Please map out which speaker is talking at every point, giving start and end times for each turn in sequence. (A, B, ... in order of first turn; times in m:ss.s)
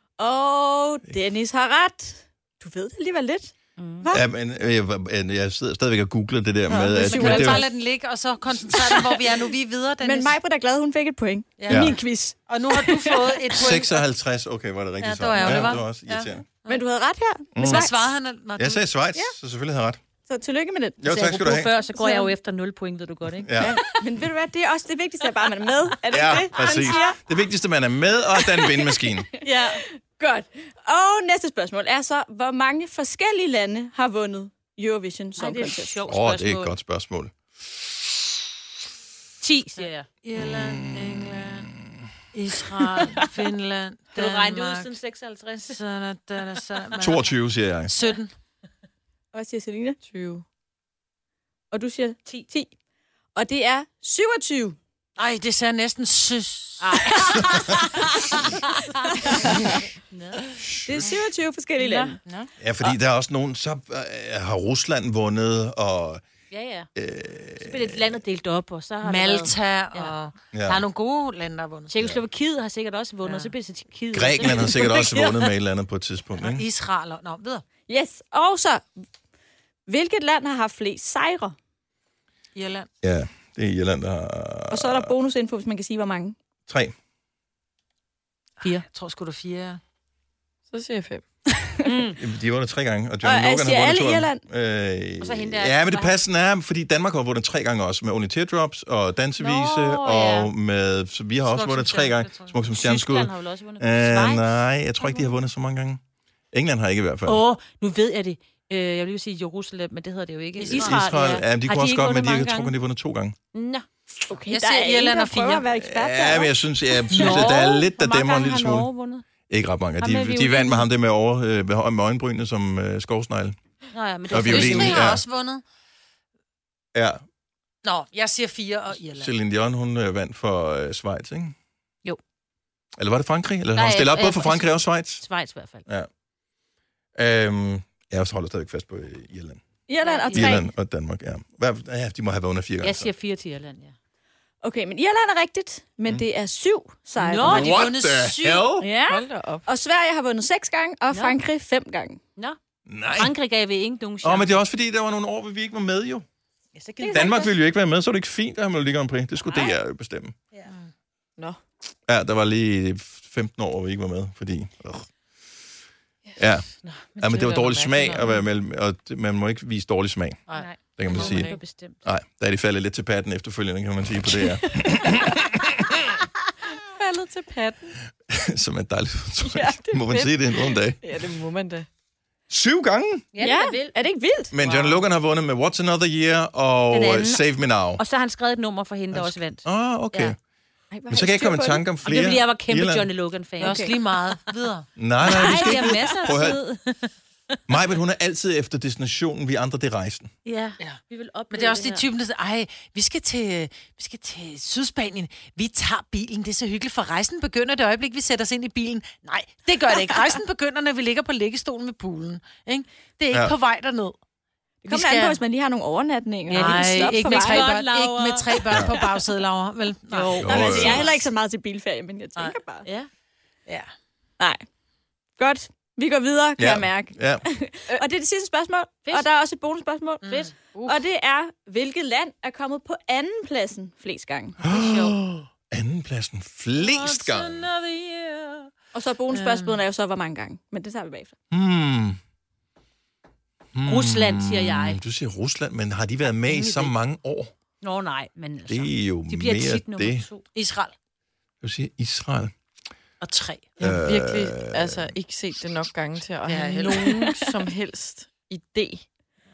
0:00.2-0:04.2 A
0:03.8-0:04.1 B
0:04.1-0:07.7 C
0:06.7-0:10.4 D
0:06.8-0:07.7 A
0:07.2-0:07.4 B
0:10.0-0:13.4 A
0:11.6-0:14.0 D
0:11.7-0:12.0 C
0:13.6-0:16.5 C
0:15.0-0:16.8 D
0:15.4-0:15.7 B
0:16.7-0:18.1 A
0:17.6-0:17.9 C
0:17.6-0:18.8 D
0:18.6-0:20.0 C
0:20.3-0:22.3 A
0:21.0-0:21.7 C
0:21.1-0:24.0 B
0:23.4-0:23.8 C
0:23.6-0:27.2 A
0:26.1-0:29.3 C
0:28.4-0:36.0 A
0:29.4-0:29.8 B
0:35.4-0:36.7 B
0:36.1-0:38.5 C
0:39.4-0:40.1 B
0:40.2-0:41.7 D
0:40.4-0:41.9 C
0:42.3-0:44.9 D
0:44.2-0:45.8 B
0:45.7-0:47.3 D
0:47.0-0:47.9 C
0:47.9-0:48.3 D
0:49.3-0:50.0 A
0:50.0-0:50.4 E
0:51.7-0:52.7 A
0:53.4-0:54.8 A
0:55.2-0:57.2 D
0:56.8-1:00.6 B
0:57.0-0:58.4 A
0:59.0-0:59.8 A
1:00.6-1:01.1 C
1:00.8-1:02.2 A
1:01.8-1:02.9 D
1:02.6-1:06.2 C
1:06.5-1:06.9 B
1:07.0-1:08.2 C
1:07.6-1:10.1 B
1:09.0-1:11.9 D
1:10.5-1:10.8 C
1:11.9-1:15.0 B
1:13.2-1:13.5 D
1:14.1-1:16.6 C
1:14.4-1:15.4 A
1:16.4-1:17.6 D
1:17.9-1:18.9 A
1:19.9-1:21.6 A
1:22.6-1:22.9 D
1:23.0-1:25.1 C
1:24.7-1:26.4 A
1:26.7-1:26.9 C
1:28.6-1:29.8 D
1:30.7-1:31.2 E
1:31.7-1:32.1 A
1:31.8-1:32.2 B
1:32.2-1:46.0 C
1:33.2-1:34.4 A
1:35.2-1:36.2 B
1:39.4-1:40.5 B
1:41.4-1:42.6 D
1:42.7-1:45.3 B
1:46.5-1:47.4 C
1:47.3-1:52.7 B
1:50.6-1:51.2 D
1:50.7-1:53.4 C
1:53.5-1:53.9 B
1:54.3-1:56.6 A
1:54.5-1:55.7 D
1:55.8-1:58.9 C
1:57.1-1:59.3 B
1:57.1-1:57.4 D
1:59.5-2:03.6 C
2:00.0-2:00.9 B
2:03.9-2:05.2 B
2:04.3-2:05.2 C
2:04.3-2:05.6 D
2:06.9-2:07.2 C
2:07.8-2:09.3 D
2:09.1-2:11.6 C
2:13.0-2:15.2 C
2:13.8-2:15.9 B
2:17.2-2:19.6 C
2:19.9-2:20.7 A
2:20.0-2:20.6 B
2:20.3-2:23.1 C
2:22.8-2:23.9 B
2:24.6-2:27.6 A
2:27.2-2:27.8 B
2:27.4-2:28.7 D
2:27.4-2:28.9 C
2:28.8-2:32.2 A
2:29.1-2:29.7 E
2:31.1-2:31.4 B
2:32.9-2:33.3 C
2:33.2-2:34.6 B
2:34.2-2:36.3 C
2:36.7-2:37.4 B
2:37.0-2:37.5 A
2:37.1-2:40.4 C
2:42.1-2:45.1 C
2:46.4-2:50.4 C
2:46.8-2:48.2 B
2:47.2-2:48.4 E
2:50.5-2:51.4 D
2:50.6-2:52.0 B
2:51.0-2:56.0 C
2:51.1-2:51.6 E
2:57.0-2:58.0 E
2:58.3-3:01.0 C
2:59.5-3:01.9 E
3:02.5-3:03.3 C
3:03.3-3:04.0 B
3:03.4-3:04.5 A
3:04.5-3:08.0 C
3:06.9-3:07.4 B
3:08.0-3:10.4 B
3:09.1-3:10.4 C
3:10.9-3:11.9 A
3:11.1-3:13.1 C
3:12.0-3:13.9 B
3:13.6-3:13.9 A
3:13.6-3:14.9 D
3:15.0-3:16.6 C
3:15.2-3:17.6 B
3:15.3-3:16.3 A
3:17.7-3:20.3 C
3:20.4-3:22.1 B
3:20.8-3:34.2 D
3:34.8-3:37.7 A
3:34.9-3:35.4 D
3:36.5-3:41.0 D
3:36.5-3:38.9 B
3:40.1-3:40.8 E
3:40.4-3:41.1 C
3:40.4-3:42.9 A
3:42.8-3:43.1 B
3:45.4-3:54.6 A
3:46.6-3:47.4 C
3:50.2-3:51.0 D
3:54.6-3:57.7 C
3:54.7-3:55.2 B
3:56.8-3:58.7 D
3:58.9-4:01.4 A
3:59.3-3:59.8 D
4:01.5-4:02.2 C
4:03.8-4:07.5 C
4:03.9-4:05.0 B
4:06.5-4:06.9 D
4:07.8-4:10.4 B
4:08.7-4:10.3 C
4:10.6-4:10.9 D
4:11.6-4:12.5 C
4:13.2-4:13.7 D
4:13.8-4:15.1 C
4:13.8-4:19.1 E
4:16.5-4:17.5 D